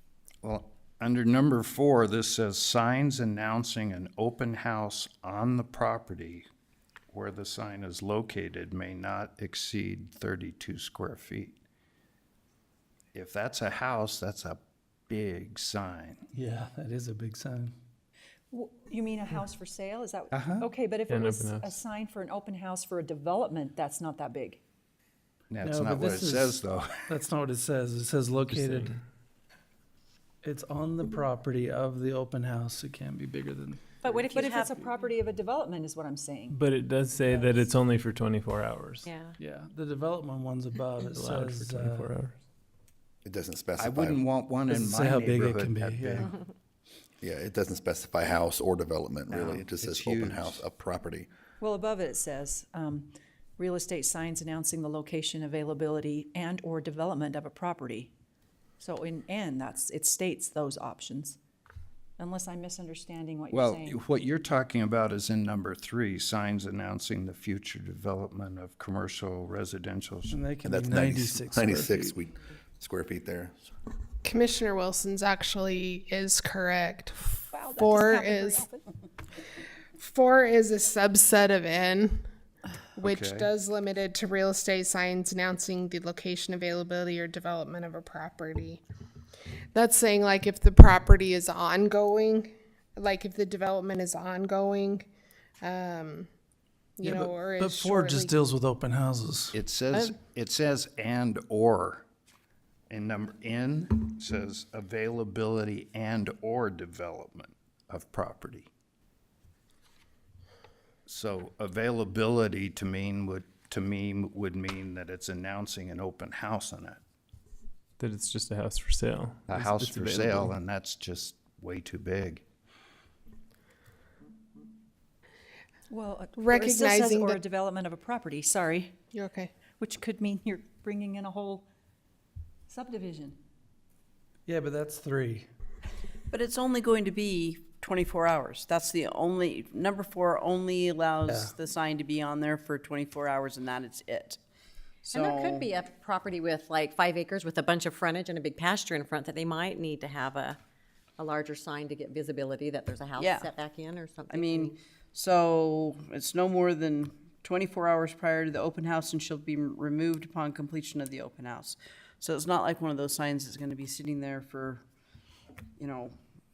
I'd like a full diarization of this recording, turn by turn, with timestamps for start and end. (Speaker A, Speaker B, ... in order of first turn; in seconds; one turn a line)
Speaker A: 0.4-6.5
Speaker A: 7.1-11.6
Speaker A: 13.1-16.2
Speaker B: 16.3-17.7
Speaker C: 18.5-24.6
Speaker A: 20.3-20.7
Speaker D: 21.1-21.8
Speaker A: 25.5-27.1
Speaker B: 25.6-28.9
Speaker D: 28.5-29.0
Speaker B: 30.4-34.4
Speaker E: 34.0-34.9
Speaker C: 34.3-36.6
Speaker D: 36.5-39.1
Speaker E: 37.3-37.6
Speaker E: 39.0-39.4
Speaker B: 39.4-42.2
Speaker D: 41.0-42.4
Speaker F: 43.2-44.2
Speaker A: 43.8-46.4
Speaker B: 44.7-46.3
Speaker F: 47.2-51.3
Speaker A: 49.3-50.6
Speaker C: 51.6-58.1
Speaker C: 58.8-61.4
Speaker C: 62.2-64.0
Speaker A: 63.5-70.4
Speaker B: 70.3-72.2
Speaker F: 70.6-73.6
Speaker G: 74.2-78.7
Speaker C: 77.5-78.8
Speaker G: 80.0-82.2
Speaker G: 83.0-88.8
Speaker A: 83.0-83.5
Speaker G: 89.7-95.0
Speaker G: 95.6-96.3
Speaker G: 97.0-98.3
Speaker B: 97.0-99.5
Speaker A: 99.5-102.0
Speaker A: 102.9-108.7
Speaker A: 111.0-117.0
Speaker D: 118.0-120.5
Speaker A: 119.5-122.4
Speaker C: 125.9-128.9
Speaker G: 126.3-127.4
Speaker G: 129.1-129.5
Speaker C: 129.8-131.7
Speaker C: 132.7-133.4
Speaker B: 134.4-135.5
Speaker H: 136.3-144.4
Speaker B: 141.3-141.5
Speaker H: 145.0-145.7
Speaker E: 145.1-150.6
Speaker E: 151.2-154.8
Speaker H: 153.2-153.5
Speaker H: 154.3-164.8
Speaker H: 165.8-166.1